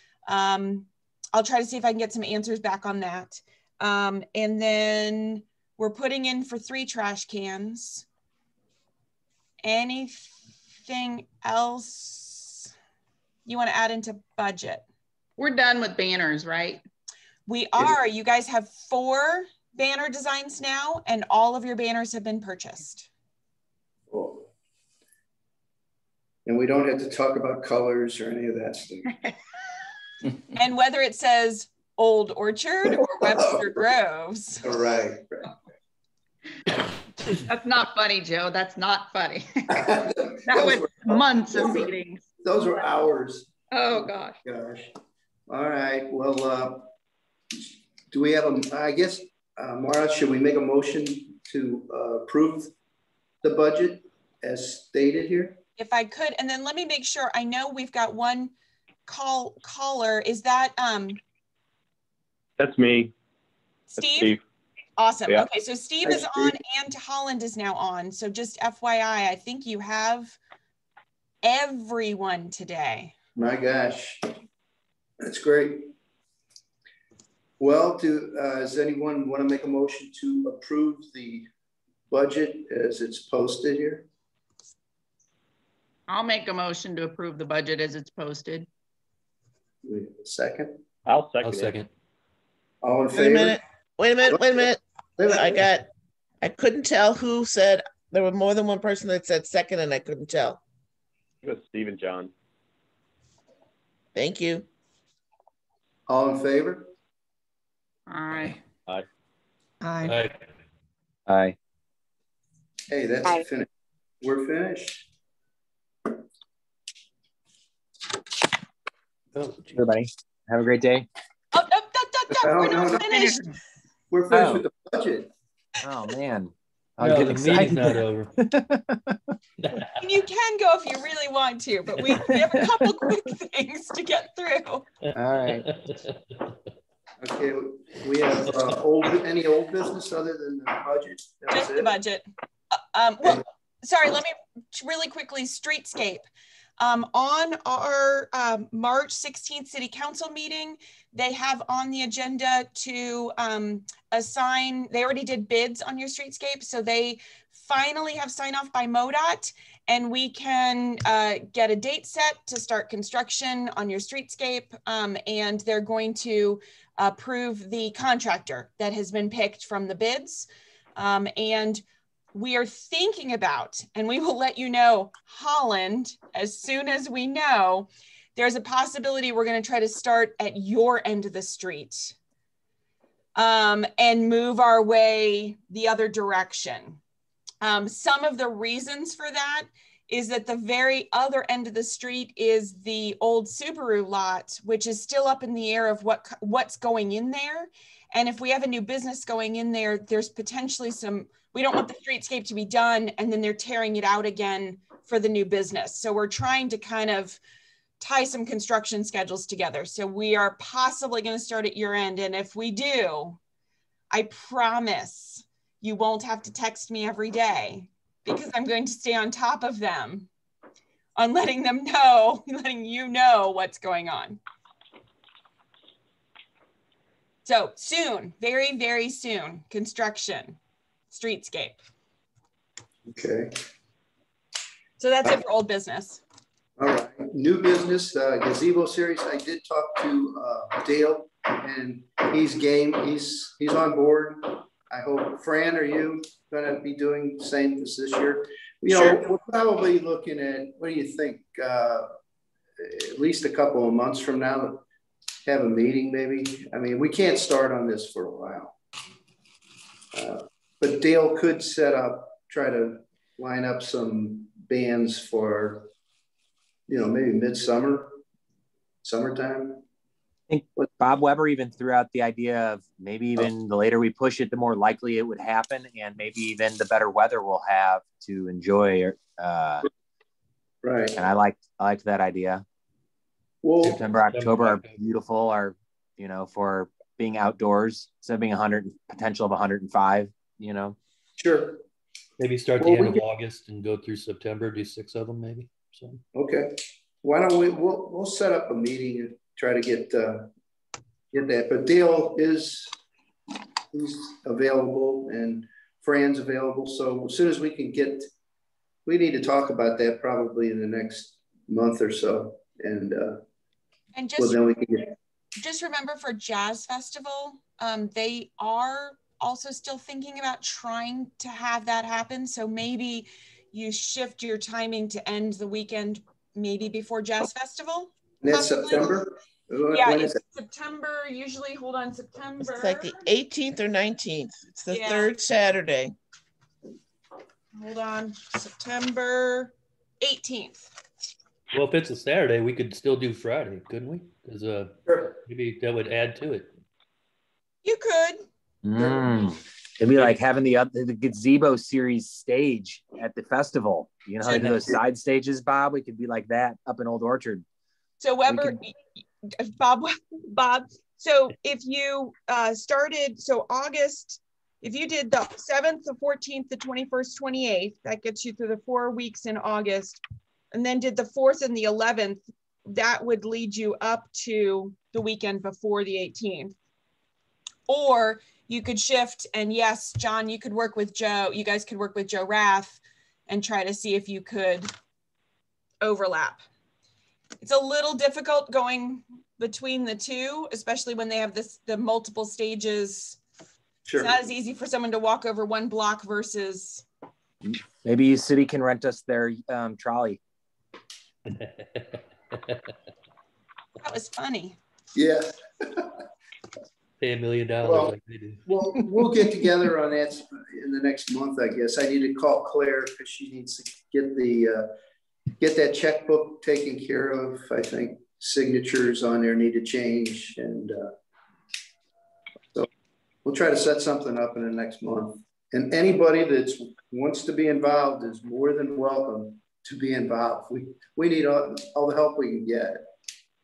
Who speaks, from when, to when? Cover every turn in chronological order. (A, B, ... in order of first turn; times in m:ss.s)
0:00.3-0:08.1 A
0:09.6-0:12.7 A
0:13.5-0:14.8 A
0:15.4-0:16.8 B
0:17.5-0:23.1 A
0:24.1-0:24.5 C
0:26.5-0:29.1 C
0:30.5-0:34.6 A
0:34.6-0:35.6 C
0:37.3-0:42.2 B
0:39.7-0:41.9 C
0:42.4-0:44.9 C
0:43.7-0:44.4 B
0:45.5-0:46.9 C
0:48.1-0:52.7 C
0:53.4-0:55.6 C
0:55.8-0:58.5 A
0:59.1-1:01.2 A
1:02.6-1:03.1 D
1:03.9-1:04.4 A
1:04.0-1:04.4 D
1:05.0-1:10.4 A
1:06.0-1:06.6 C
1:11.4-1:13.1 A
1:13.4-1:14.3 C
1:15.2-1:15.9 C
1:17.6-1:21.5 C
1:22.1-1:24.1 C
1:26.1-1:28.7 B
1:29.8-1:30.8 C
1:31.1-1:31.7 D
1:31.4-1:31.9 E
1:32.8-1:33.6 C
1:33.1-1:35.9 F
1:34.3-1:35.6 C
1:36.4-1:40.6 F
1:41.4-1:42.3 D
1:44.2-1:44.7 F
1:46.1-1:46.9 C
1:48.1-1:48.6 B
1:49.8-1:50.1 A
1:50.0-1:50.4 E
1:51.3-1:51.6 G
1:52.9-1:53.7 C
1:54.2-1:55.1 C
1:59.4-1:59.6 E
1:59.7-2:01.1 G
2:01.5-2:03.4 A
2:02.3-2:03.1 C
2:04.1-2:05.3 C
2:04.3-2:04.7 G
2:05.8-2:08.7 G
2:07.0-2:08.3 E
2:09.6-2:10.0 E
2:10.0-2:14.9 A
2:15.1-2:15.6 C
2:15.3-2:15.6 G
2:15.5-2:16.5 E
2:17.2-2:22.0 C
2:21.5-2:26.2 A
2:26.8-2:51.8 A
2:52.3-3:02.2 A
3:03.4-3:07.0 A
3:07.6-3:27.4 A
3:28.0-3:33.4 A
3:34.1-3:40.3 A
3:41.2-3:44.4 A
3:47.5-3:50.6 A
3:51.1-3:51.8 A
3:53.1-3:53.6 C
3:55.0-3:56.2 A
3:56.8-4:12.1 C
4:08.9-4:09.2 F
4:12.8-4:14.8 C
4:15.4-4:18.8 C
4:20.1-4:25.9 C
4:26.9-4:28.2 C
4:29.0-4:29.8 C
4:30.5-4:39.9 G
4:40.8-4:41.2 C
4:41.2-4:42.6 G
4:43.6-4:44.0 C
4:43.8-4:51.0 G
4:44.3-4:45.0 E
4:51.4-4:51.8 C
4:52.4-4:56.2 E
4:52.8-4:53.2 C
4:56.3-5:00.5 C
5:01.3-5:02.9 C
5:03.9-5:08.3 C
5:09.1-5:13.4 C
5:14.2-5:14.6 A
5:14.4-5:15.1 C
5:15.6-5:29.1 A
5:28.4-5:30.4 C
5:29.9-5:33.2 A
5:32.6-5:36.2 F
5:34.9-5:35.3 A
5:37.8-5:40.9 A
5:41.7-5:46.7 E
5:47.8-5:48.4 A
5:48.8-5:57.6 G
5:54.4-5:55.0 C
5:58.2-5:59.0 A
5:59.6-6:10.2 A
6:10.7-6:16.7 A
6:17.9-6:24.9 A
6:26.0-6:26.6 A
6:27.6-6:33.4 A
6:34.0-6:34.4 C
6:34.2-6:37.0 A
6:37.6-6:40.4 G
6:41.5-6:42.9 E
6:44.0-6:44.8 A
6:45.2-6:46.2 C
6:47.2-6:48.6 E
6:47.8-6:54.9 C
6:55.6-7:01.1 C
7:03.4-7:13.0 C